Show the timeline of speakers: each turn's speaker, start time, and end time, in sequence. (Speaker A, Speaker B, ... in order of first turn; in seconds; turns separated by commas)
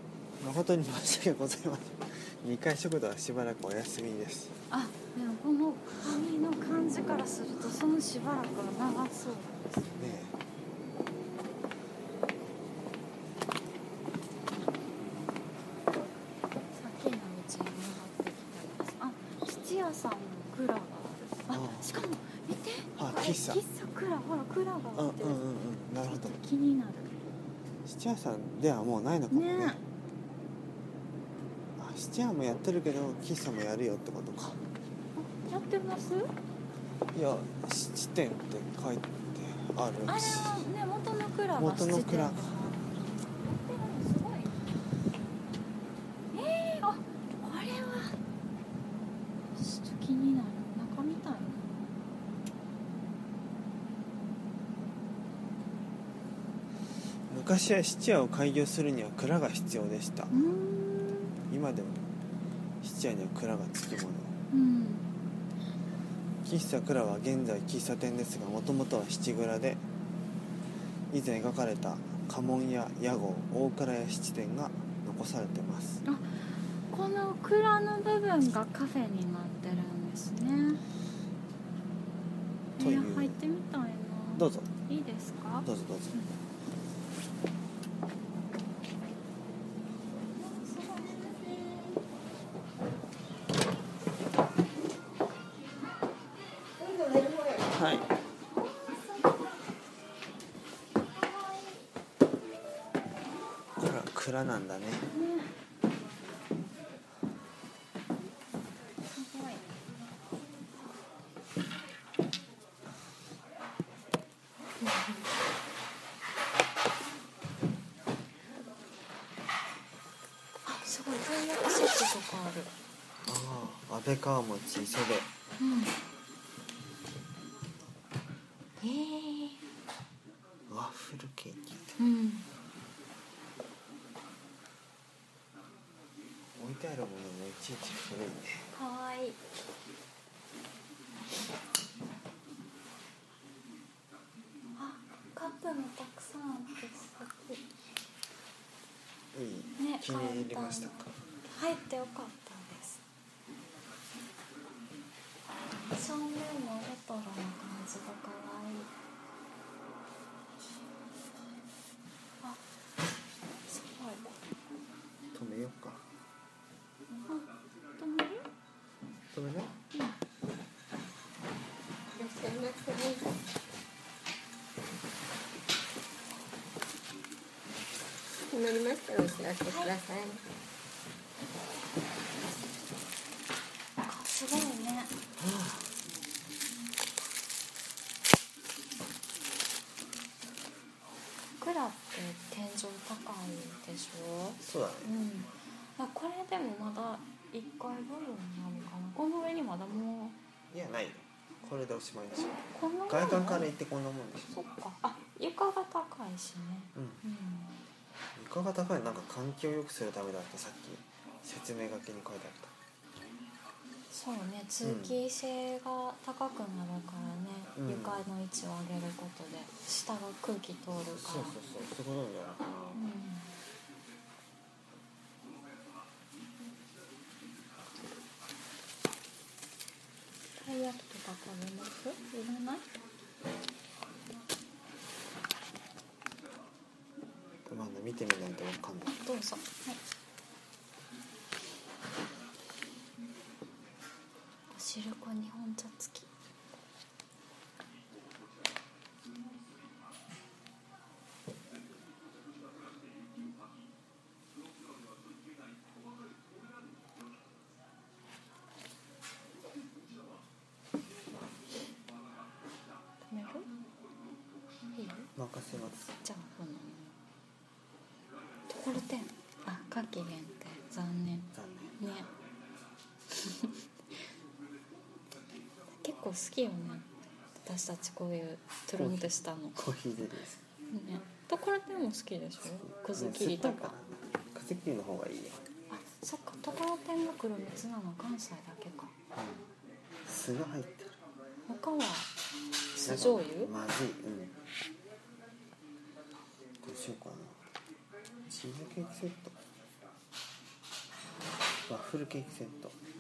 Speaker A: 0.4-4.5, Speaker B: 4.7-10.2, Speaker A: 9.9-10.3, Speaker B: 16.6-25.4, Speaker A: 21.5-21.9, Speaker A: 23.0-23.6, Speaker A: 25.0-26.4, Speaker B: 26.1-27.1, Speaker A: 27.9-29.8, Speaker B: 29.3-29.8, Speaker A: 31.8-34.6, Speaker B: 35.2-36.3, Speaker A: 37.1-40.6, Speaker B: 40.1-44.6, Speaker A: 41.6-42.5, Speaker B: 46.3-48.2, Speaker B: 49.5-51.7, Speaker A: 57.3-60.3, Speaker B: 60.3-61.3, Speaker A: 61.5-62.1, Speaker A: 62.8-64.3, Speaker B: 64.5-65.1, Speaker A: 66.4-69.8, Speaker A: 71.1-76.0, Speaker B: 76.0-80.8, Speaker A: 82.8-83.4, Speaker B: 82.8-86.3, Speaker A: 84.4-84.7, Speaker A: 85.7-86.1, Speaker B: 90.3-91.9, Speaker A: 97.6-98.1, Speaker B: 98.6-99.6, Speaker B: 101.2-101.8, Speaker A: 103.8-105.1, Speaker B: 105.1-105.5, Speaker B: 109.1-109.6, Speaker B: 114.8-115.3, Speaker B: 120.7-122.7, Speaker A: 123.2-125.3, Speaker B: 125.6-126.0, Speaker B: 128.8-129.6, Speaker A: 130.7-132.0, Speaker B: 132.0-132.5, Speaker A: 136.6-138.6, Speaker B: 138.7-139.4, Speaker B: 144.8-147.7, Speaker A: 149.3-151.1, Speaker B: 149.8-153.0, Speaker B: 155.7-158.9, Speaker B: 163.7-164.3, Speaker A: 165.3-166.1, Speaker B: 167.1-168.5, Speaker A: 169.3-169.7, Speaker C: 172.1-173.3, Speaker C: 178.5-180.4, Speaker B: 184.0-185.1, Speaker A: 185.4-185.9, Speaker B: 191.6-200.4, Speaker A: 194.6-195.1, Speaker A: 200.7-204.6, Speaker B: 202.4-203.7, Speaker B: 204.5-207.8, Speaker A: 207.0-207.2, Speaker A: 208.3-212.7, Speaker B: 214.1-221.6, Speaker A: 214.8-215.2, Speaker A: 217.8-218.3, Speaker A: 221.2-223.0, Speaker B: 222.9-223.5, Speaker B: 230.6-232.9, Speaker A: 237.7-239.2, Speaker B: 239.1-240.0, Speaker B: 244.7-246.3, Speaker B: 263.3-263.7, Speaker B: 264.9-267.2, Speaker A: 265.4-266.1, Speaker B: 268.7-272.3, Speaker A: 271.5-271.9, Speaker B: 273.4-273.7, Speaker B: 276.0-277.1, Speaker B: 277.6-279.8, Speaker A: 279.0-280.6, Speaker B: 280.9-283.9, Speaker A: 282.9-285.6, Speaker B: 285.9-289.1, Speaker A: 289.4-289.7, Speaker A: 290.2-291.2, Speaker B: 291.7-292.3, Speaker B: 292.9-293.7, Speaker A: 293.1-294.6, Speaker A: 296.8-297.6, Speaker A: 298.5-299.6, Speaker A: 301.9-303.0